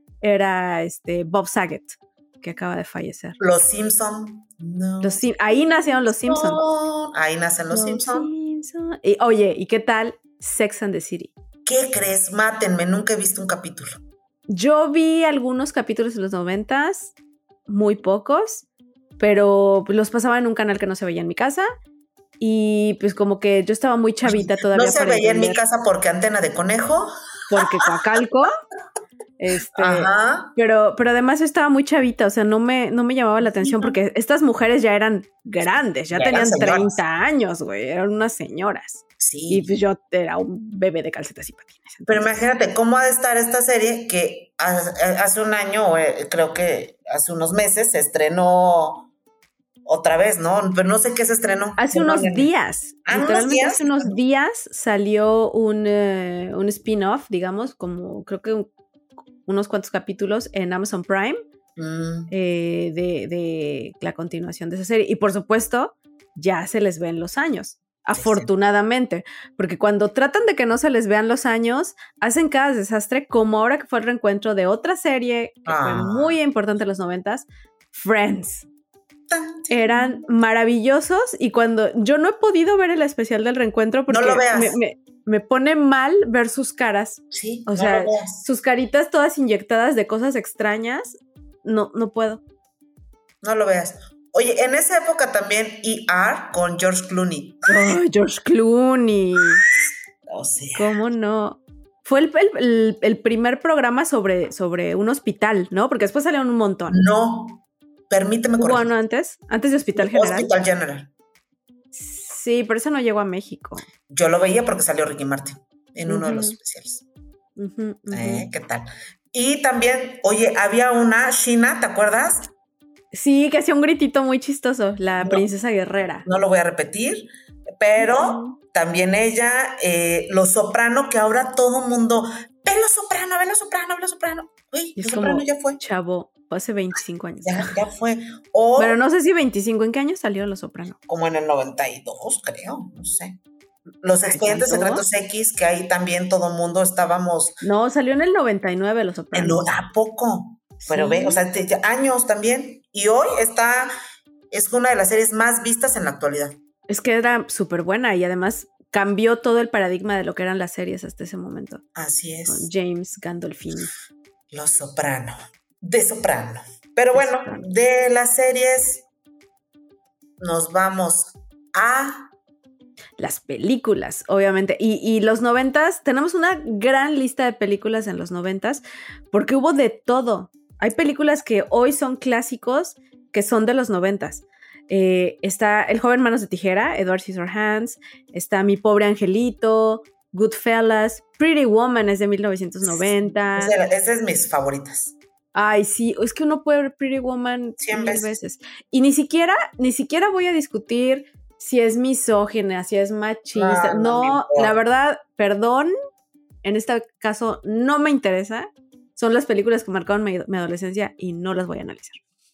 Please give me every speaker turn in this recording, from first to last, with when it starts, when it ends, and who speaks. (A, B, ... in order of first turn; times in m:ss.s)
0:00.2-0:03.4 A
0:03.4-0:05.2 B
0:05.0-0:06.6 A
0:06.3-0:08.3 B
0:07.7-0:11.3 A
0:11.6-0:14.0 B
0:14.5-0:17.1 A
0:17.7-0:18.7 A
0:19.2-0:21.6 A
0:22.4-0:25.6 A
0:24.2-0:27.9 B
0:27.5-0:28.5 A
0:29.4-0:42.3 A
0:29.7-0:30.5 B
0:33.4-0:34.0 B
0:35.6-0:37.0 B
0:39.2-0:39.7 B
0:42.1-0:49.1 B
0:49.8-0:52.5 B
0:51.8-0:58.7 A
0:53.0-0:54.1 B
0:59.4-1:01.4 A
1:01.8-1:02.3 B
1:02.3-1:18.7 A
1:08.1-1:08.5 B
1:15.6-1:16.4 B
1:19.3-1:20.2 B
1:19.7-1:32.4 A
1:24.1-1:24.8 B
1:27.3-1:28.4 B
1:33.4-1:37.9 B
1:37.7-1:39.6 A
1:40.3-1:40.9 B
1:40.8-1:47.0 A
1:46.9-1:48.9 B
1:48.6-1:50.5 A
1:50.0-1:51.1 B
1:51.9-1:53.9 A
1:54.1-1:57.0 B
1:56.1-1:56.6 A
1:57.6-1:58.4 A
1:58.1-2:02.5 B
2:03.1-2:06.2 A
2:05.2-2:05.4 B
2:06.2-2:07.3 B
2:07.8-2:15.8 B
2:08.0-2:08.6 A
2:15.0-2:17.8 A
2:17.4-2:19.0 B
2:18.8-2:21.0 A
2:21.1-2:23.4 B
2:24.0-2:27.6 B
2:24.3-2:25.0 A
2:27.6-2:29.7 A
2:29.3-2:33.9 B
2:30.8-2:31.4 A
2:34.5-2:36.6 B
2:36.9-2:41.8 A
2:42.0-2:42.7 B
2:42.5-2:43.9 A
2:44.5-2:49.0 B
2:47.1-2:47.6 A
2:50.4-2:52.3 B
2:53.2-3:13.7 A
3:12.8-3:15.2 B
3:15.5-3:25.9 A
3:17.8-3:18.3 B
3:23.5-3:24.8 B
3:26.6-3:32.2 A